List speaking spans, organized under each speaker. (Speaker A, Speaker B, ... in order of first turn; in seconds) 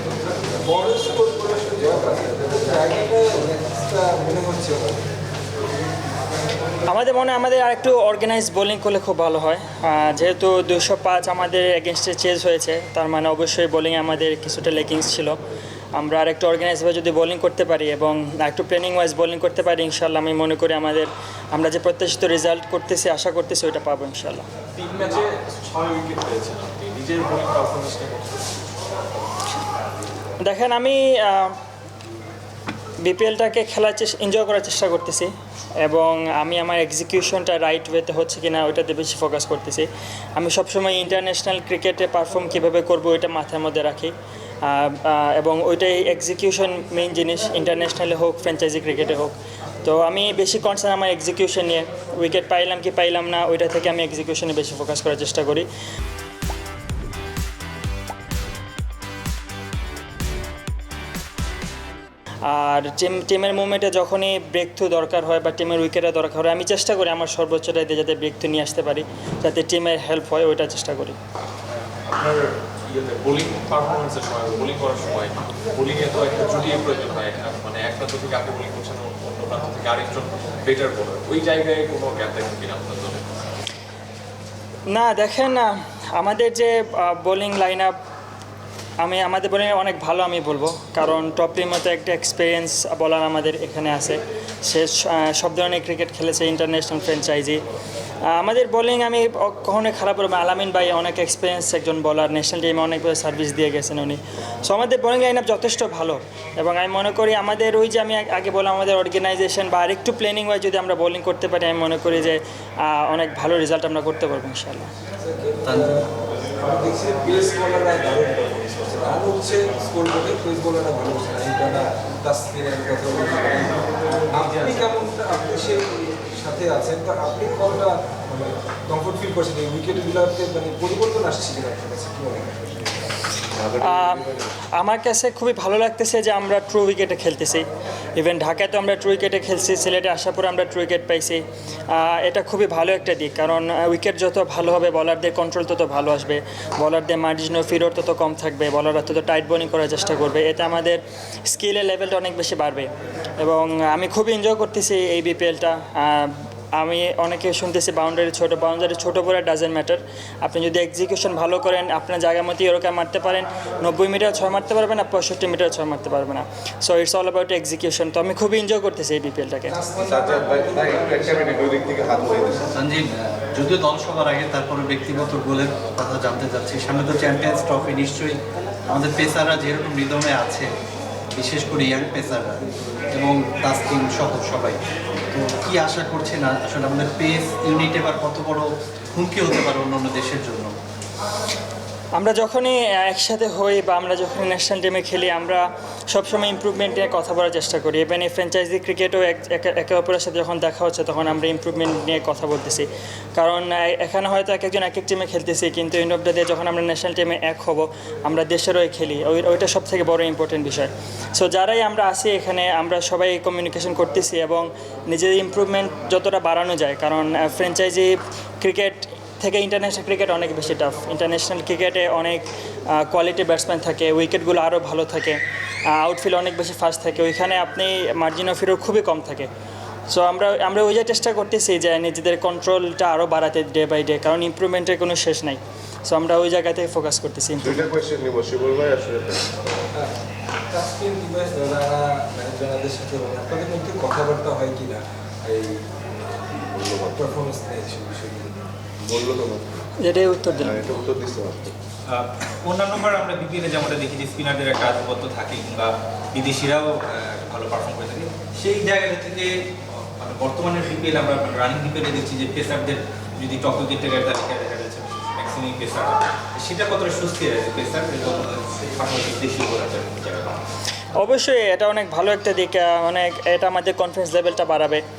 Speaker A: 0.5-5.1, 115.2-133.0, 240.7-246.0, 247.2-248.6
Speaker B: 6.9-15.4, 15.9-24.4, 30.4-31.6, 33.0-55.7, 62.4-71.2, 84.9-88.0, 89.0-97.6, 98.3-114.9, 133.7-137.7, 138.2-169.8, 192.1-229.5, 230.1-237.8, 250.0-250.9, 271.2-275.0
Speaker C: 24.8-28.7, 72.0-83.3
Speaker D: 115.6-115.9, 172.7-180.7, 181.3-190.8
Speaker E: 170.0-172.7, 237.6-239.7, 246.7-247.2, 249.0-249.8, 250.6-251.7
Speaker F: 252.1-270.6